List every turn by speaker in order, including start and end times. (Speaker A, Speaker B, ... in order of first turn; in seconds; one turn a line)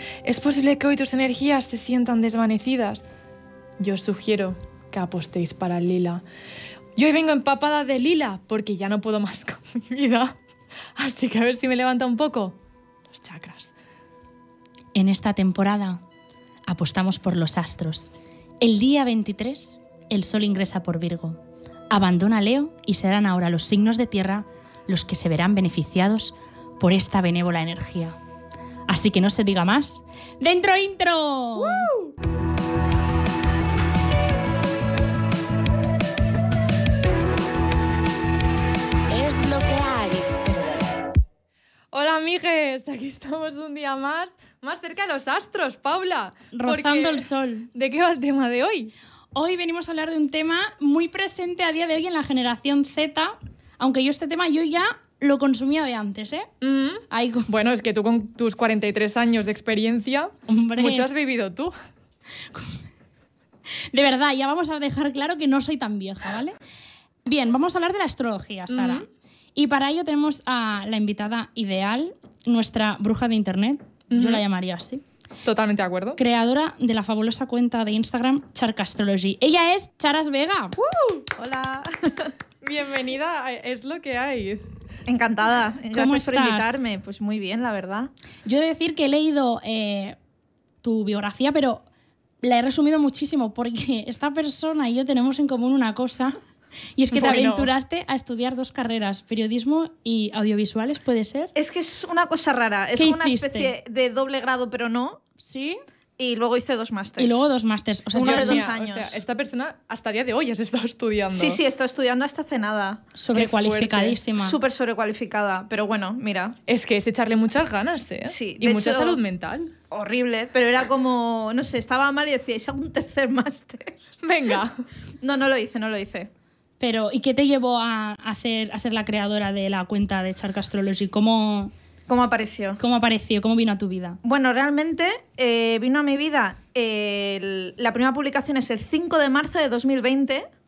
Speaker A: 0.2-3.0
Speaker A: 3.8-6.2
Speaker A: 7.0-10.4
Speaker A: 11.0-12.6
Speaker A: 13.1-13.7
Speaker B: 14.9-16.0
Speaker B: 16.7-28.1
Speaker B: 28.9-31.9
Speaker B: 39.1-40.8
Speaker A: 41.9-48.9
Speaker B: 46.5-47.7
Speaker B: 49.3-56.5
Speaker A: 56.6-61.7
Speaker B: 57.1-57.5
Speaker B: 60.5-61.1
Speaker B: 62.5-62.8
Speaker B: 63.9-66.5
Speaker B: 67.2-75.0
Speaker A: 68.7-69.0
Speaker A: 74.1-74.4
Speaker A: 75.4-76.2
Speaker B: 76.2-80.8
Speaker C: 80.8-82.3
Speaker A: 82.6-84.6
Speaker C: 85.1-88.1
Speaker B: 85.9-86.8
Speaker B: 88.5-90.2
Speaker B: 90.8-91.8
Speaker B: 92.4-96.4
Speaker B: 97.0-101.5
Speaker A: 97.1-97.7
Speaker C: 101.5-105.2
Speaker B: 103.0-103.7
Speaker B: 105.4-105.8
Speaker C: 106.2-107.5
Speaker B: 107.2-108.7
Speaker C: 108.1-109.2
Speaker A: 108.2-111.6
Speaker C: 111.3-113.0
Speaker B: 113.2-114.6
Speaker A: 113.3-114.2
Speaker C: 114.3-116.5
Speaker A: 116.7-119.7
Speaker C: 118.3-119.2
Speaker C: 119.9-124.0
Speaker A: 124.2-124.8
Speaker C: 125.2-126.3
Speaker B: 126.8-131.7
Speaker C: 132.1-132.8
Speaker B: 132.8-134.2
Speaker C: 134.2-140.5